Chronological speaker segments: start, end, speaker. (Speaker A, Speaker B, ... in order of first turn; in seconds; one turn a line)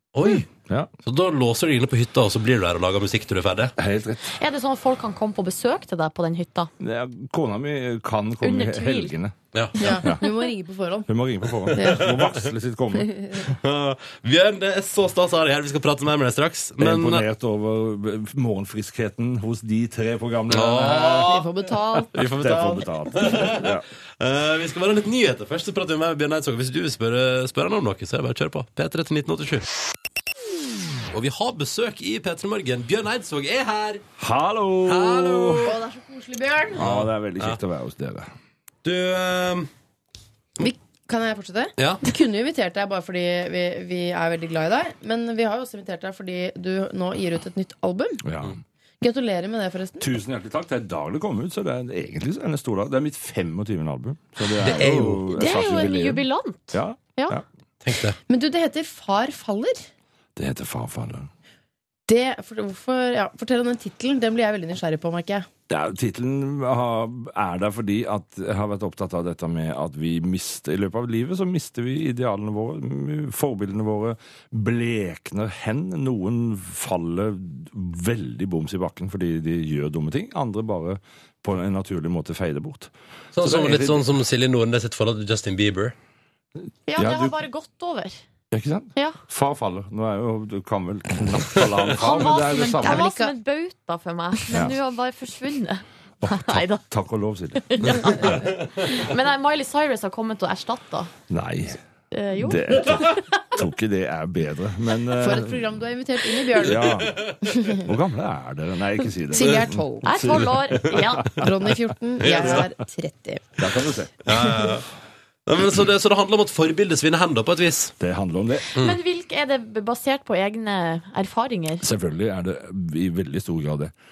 Speaker A: 0.1-0.5
Speaker A: 1.0-3.7
Speaker B: 3.8-4.4
Speaker C: 4.4-6.7
Speaker B: 6.8-10.3
Speaker C: 8.4-9.1
Speaker A: 9.5-10.0
Speaker D: 9.8-11.1
Speaker B: 11.1-13.4
Speaker A: 11.6-12.5
Speaker D: 11.8-12.1
Speaker D: 12.9-13.5
Speaker A: 13.5-17.2
Speaker B: 16.8-21.4
Speaker A: 20.5-21.5
Speaker D: 20.8-23.5
Speaker A: 22.1-29.7
Speaker B: 22.3-23.9
Speaker A: 31.1-34.0
Speaker B: 34.2-35.7
Speaker A: 34.9-35.8
Speaker D: 35.7-36.8
Speaker B: 36.8-38.3
Speaker A: 36.8-37.6
Speaker A: 38.8-39.7
Speaker D: 40.6-48.2
Speaker A: 41.8-42.1
Speaker B: 48.2-48.6
Speaker D: 49.0-50.1
Speaker B: 50.0-57.5
Speaker A: 54.6-55.3
Speaker C: 55.3-57.4
Speaker A: 57.8-58.2
Speaker D: 58.3-59.9
Speaker B: 60.4-61.3
Speaker D: 62.1-65.5
Speaker B: 65.7-84.1
Speaker A: 83.3-86.0
Speaker C: 86.9-88.2
Speaker B: 87.0-87.4
Speaker B: 88.5-93.1
Speaker C: 89.0-89.2
Speaker C: 92.0-96.8
Speaker D: 92.8-93.3
Speaker B: 94.5-94.8
Speaker B: 96.2-98.4
Speaker C: 97.6-101.1
Speaker A: 97.8-98.9
Speaker B: 101.3-101.8
Speaker C: 102.1-103.2
Speaker B: 102.3-105.8
Speaker D: 105.2-107.8
Speaker B: 106.6-111.8
Speaker A: 107.1-107.4
Speaker D: 109.3-110.3
Speaker C: 110.0-111.3
Speaker D: 111.3-113.6
Speaker A: 112.2-112.7
Speaker B: 112.3-112.7
Speaker B: 113.6-114.3
Speaker A: 114.2-114.8
Speaker D: 114.3-114.7
Speaker A: 115.5-118.0
Speaker B: 118.0-118.7
Speaker C: 118.8-121.8
Speaker B: 121.8-123.9